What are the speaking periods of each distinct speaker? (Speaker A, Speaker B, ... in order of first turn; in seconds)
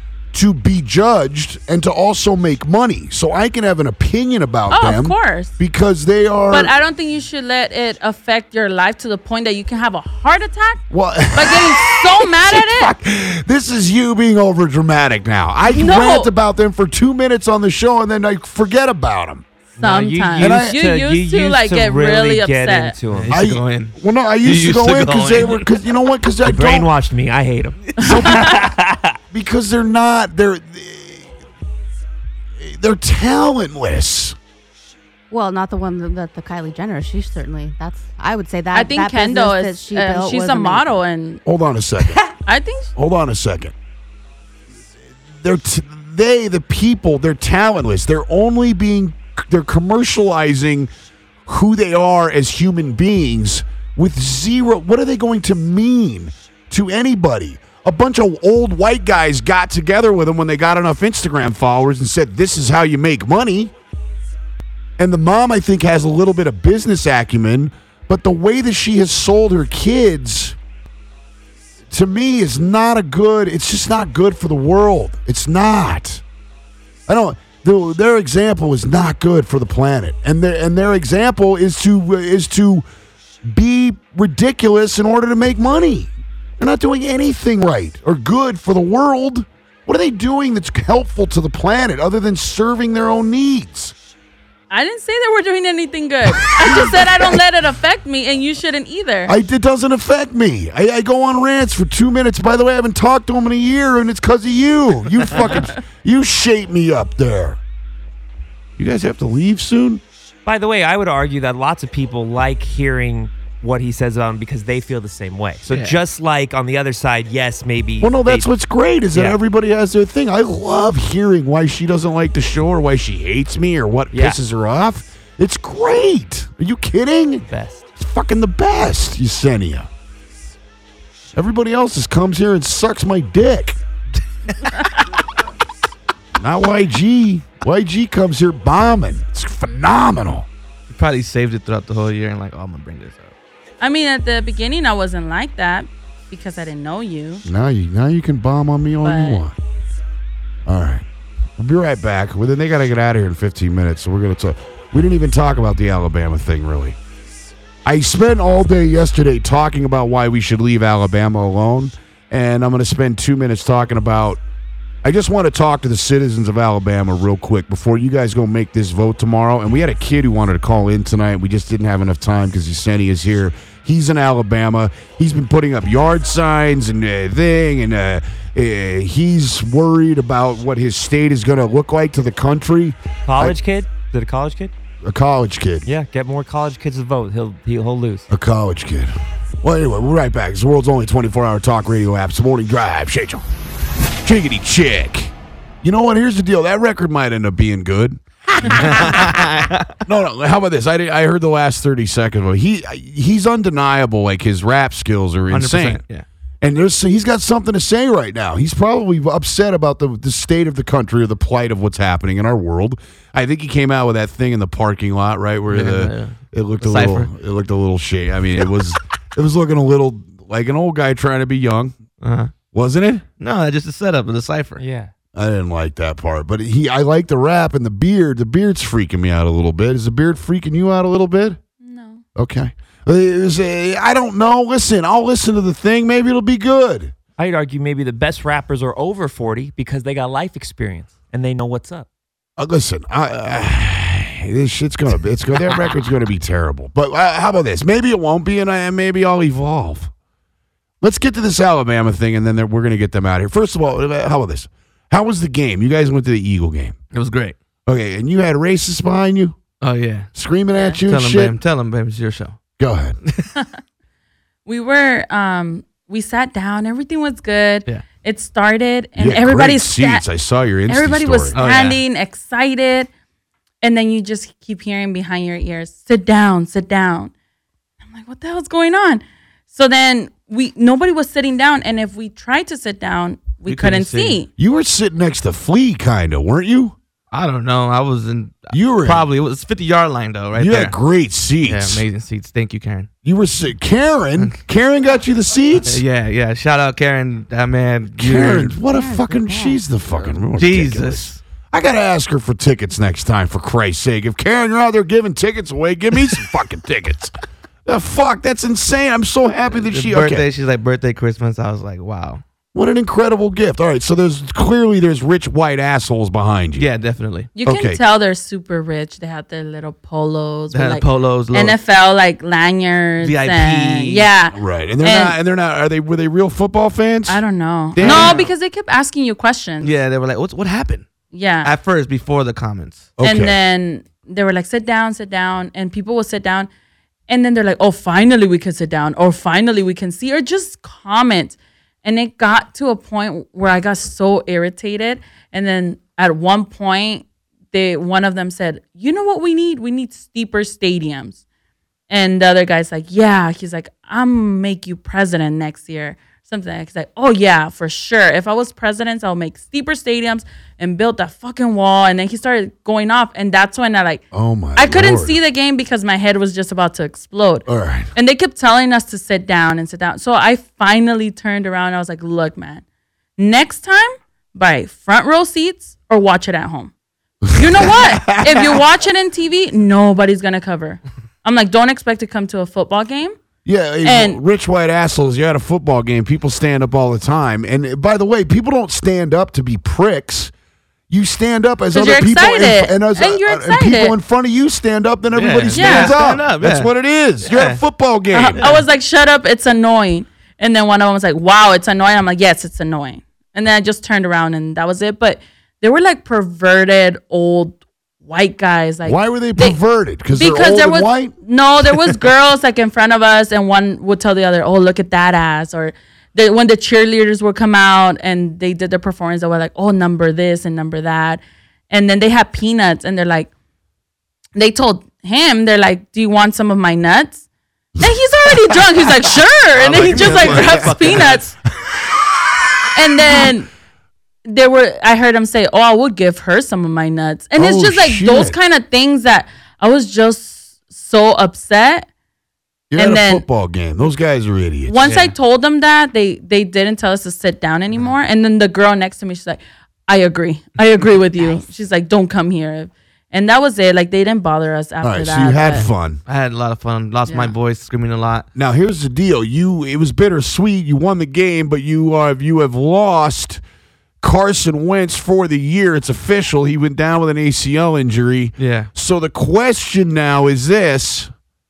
Speaker A: 0.3-6.7, 10.9-19.5, 20.4-20.8, 23.3-26.9, 28.1-28.7, 29.3-31.3, 32.6-34.4, 41.5-42.2, 43.0-43.7, 45.3-50.9, 51.5-63.7, 65.0-70.6, 71.9-76.2, 77.1-82.8, 83.5-93.9, 96.3-97.4, 99.3-107.6, 108.8-110.0, 118.0-129.9, 131.3-133.8, 136.4-140.5, 147.4-149.6, 150.7-151.1, 151.6-157.0, 157.8-164.4, 165.0-183.6, 185.0-185.9, 188.3-193.5, 194.2-199.5, 200.1-206.0, 206.6-222.0, 222.7-223.2, 225.3-231.6, 232.4-237.2, 242.6-250.1, 251.0-257.0, 257.9-259.6, 260.4-261.6, 262.8-263.2, 269.2-271.6, 284.6-287.0, 288.7-289.3, 290.6-292.0, 293.2-296.0, 298.2-310.5, 312.7-316.9, 317.6-318.0, 324.5-327.4, 327.9-328.4, 333.2-333.6, 364.3-365.4, 367.7-368.1, 377.4-378.8, 383.6-390.5, 391.1-398.8, 409.0-411.3, 430.1-430.9, 437.6-438.6, 442.9-445.1, 455.0-456.2, 458.6-463.6, 464.2-471.3
Speaker B: 4.7-5.6, 6.5-10.8, 11.3-12.9, 15.7-16.3, 19.8-23.0, 28.0-28.6, 38.7-41.4, 42.5-42.9, 94.7-99.3, 143.8-147.4, 149.0-149.4, 231.8-232.2, 264.7-270.2, 270.9-273.1, 273.8-277.3, 278.0-284.5, 317.6-325.4, 327.3-329.9, 331.3-331.7, 333.2-336.7, 337.3-351.4, 352.1-364.2, 364.8-372.8, 373.4-376.9, 377.5-383.4, 384.0-384.4, 391.9-394.1, 395.7-396.2, 398.3-409.8, 410.3-423.5, 424.6-427.4, 428.0-431.5, 432.9-433.7, 434.4-442.1, 443.0-443.4, 444.9-455.9
Speaker C: 19.8-23.4, 26.4-29.2, 110.5-118.5, 119.1-119.4, 124.1-124.4, 127.5-127.9, 183.3-184.7, 185.9-188.3, 224.8-225.1, 237.4-242.1
Speaker D: 23.1-25.7, 115.7-116.0, 140.9-143.3, 198.6-200.0, 205.5-206.2, 215.7-217.3, 222.2-222.5, 223.4-224.8, 257.1-257.6, 259.8-260.3, 261.1-262.6, 263.2-263.5, 271.5-272.0, 283.7-284.4, 287.3-290.9, 291.7-293.1, 295.9-298.8, 300.1-301.4, 309.7-312.4, 316.8-317.5, 320.7-321.8, 323.2-324.3, 328.0-328.5, 329.8-331.1, 331.6-333.1, 395.3-396.9, 397.4-397.8, 429.7-431.4, 445.0-445.3, 456.3-458.5, 468.6-468.9
Speaker E: 35.3-41.0, 298.9-299.8